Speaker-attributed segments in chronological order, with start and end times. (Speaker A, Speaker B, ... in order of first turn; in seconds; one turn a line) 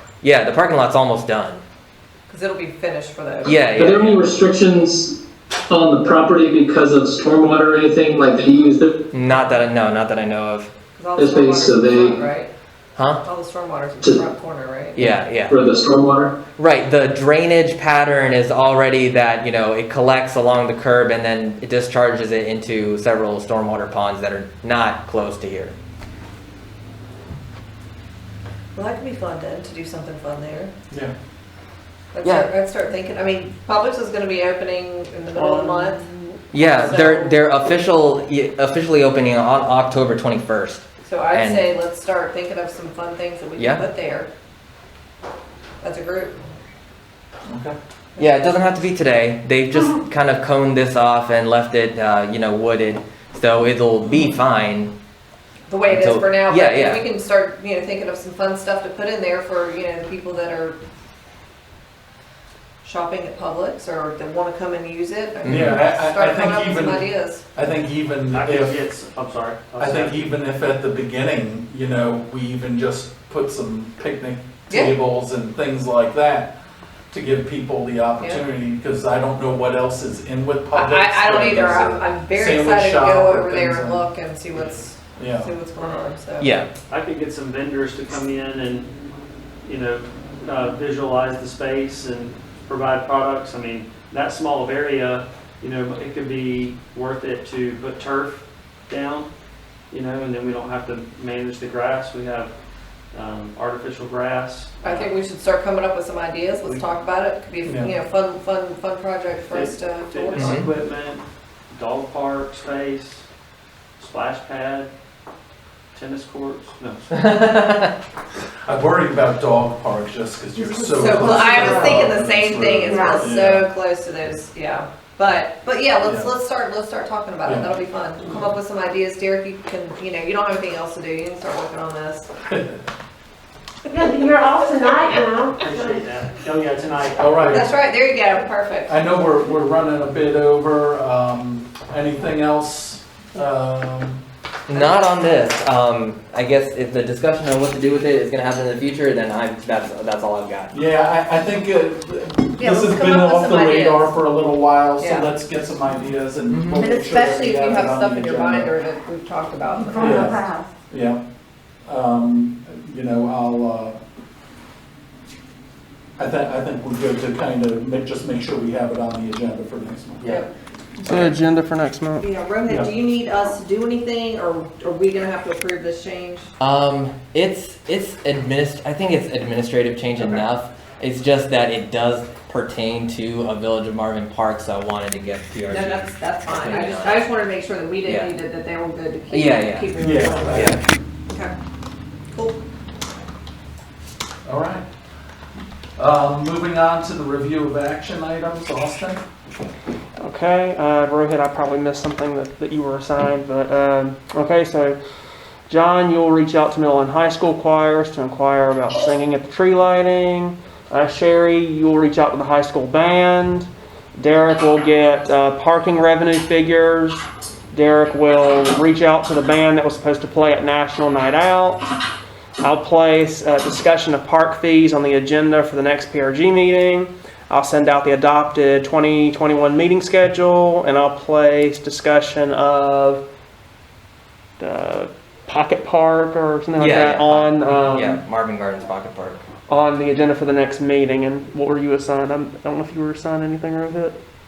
Speaker A: 0.2-1.6
Speaker B: 2.3-3.7
Speaker A: 3.5-4.2
Speaker C: 3.8-5.1
Speaker C: 5.7-9.0
Speaker A: 9.1-10.7
Speaker B: 11.0-12.5
Speaker C: 11.2-12.2
Speaker A: 13.0-13.2
Speaker B: 13.2-15.0
Speaker A: 15.0-15.6
Speaker C: 15.5-16.4
Speaker A: 16.6-25.8
Speaker B: 28.8-30.7
Speaker B: 32.1-36.0
Speaker A: 32.2-32.5
Speaker D: 35.4-36.8
Speaker A: 36.5-41.7
Speaker B: 36.8-37.4
Speaker B: 41.0-44.3
Speaker A: 43.6-43.9
Speaker B: 45.8-46.4
Speaker E: 47.5-47.8
Speaker A: 48.2-54.9
Speaker B: 55.7-60.8
Speaker A: 55.9-57.0
Speaker B: 62.8-67.4
Speaker A: 65.5-65.8
Speaker E: 65.5-68.8
Speaker F: 68.3-70.3
Speaker E: 69.8-76.5
Speaker B: 74.7-75.0
Speaker E: 77.1-85.5
Speaker B: 80.7-86.5
Speaker A: 86.4-86.7
Speaker F: 86.9-88.9
Speaker F: 89.6-99.3
Speaker F: 99.9-102.5
Speaker F: 103.1-105.1
Speaker B: 104.8-110.6
Speaker E: 107.6-107.9
Speaker F: 109.5-113.2
Speaker A: 110.4-110.7
Speaker F: 114.0-114.9
Speaker F: 115.9-117.0
Speaker A: 117.1-117.9
Speaker E: 118.7-123.7
Speaker G: 120.6-122.1
Speaker B: 120.9-132.3
Speaker G: 122.8-123.2
Speaker E: 126.0-126.3
Speaker E: 127.5-127.7
Speaker E: 132.5-132.8
Speaker G: 133.9-136.0
Speaker B: 134.1-135.2
Speaker F: 135.6-137.6
Speaker E: 137.2-137.7
Speaker B: 137.4-139.0
Speaker E: 138.9-144.2
Speaker A: 144.7-150.7
Speaker B: 144.7-145.5
Speaker E: 150.7-158.7
Speaker B: 152.6-154.1
Speaker B: 155.0-155.3
Speaker A: 156.5-156.8
Speaker B: 156.7-160.2
Speaker G: 159.7-160.7
Speaker E: 160.0-161.2
Speaker E: 161.9-164.0
Speaker E: 166.2-170.4
Speaker B: 170.2-170.5
Speaker D: 171.0-172.3
Speaker A: 171.1-171.3
Speaker B: 172.2-176.5
Speaker A: 176.6-187.3
Speaker E: 180.2-180.4
Speaker B: 185.7-190.8
Speaker A: 188.0-188.3
Speaker A: 189.3-189.9
Speaker E: 190.0-190.8
Speaker A: 190.5-190.8
Speaker B: 191.3-191.5
Speaker B: 192.3-192.6
Speaker E: 194.4-194.9
Speaker E: 196.0-199.2
Speaker D: 200.2-205.0
Speaker D: 205.7-221.9
Speaker D: 222.6-233.2
Speaker D: 234.6-238.2
Speaker A: 236.8-239.4
Speaker D: 239.7-244.2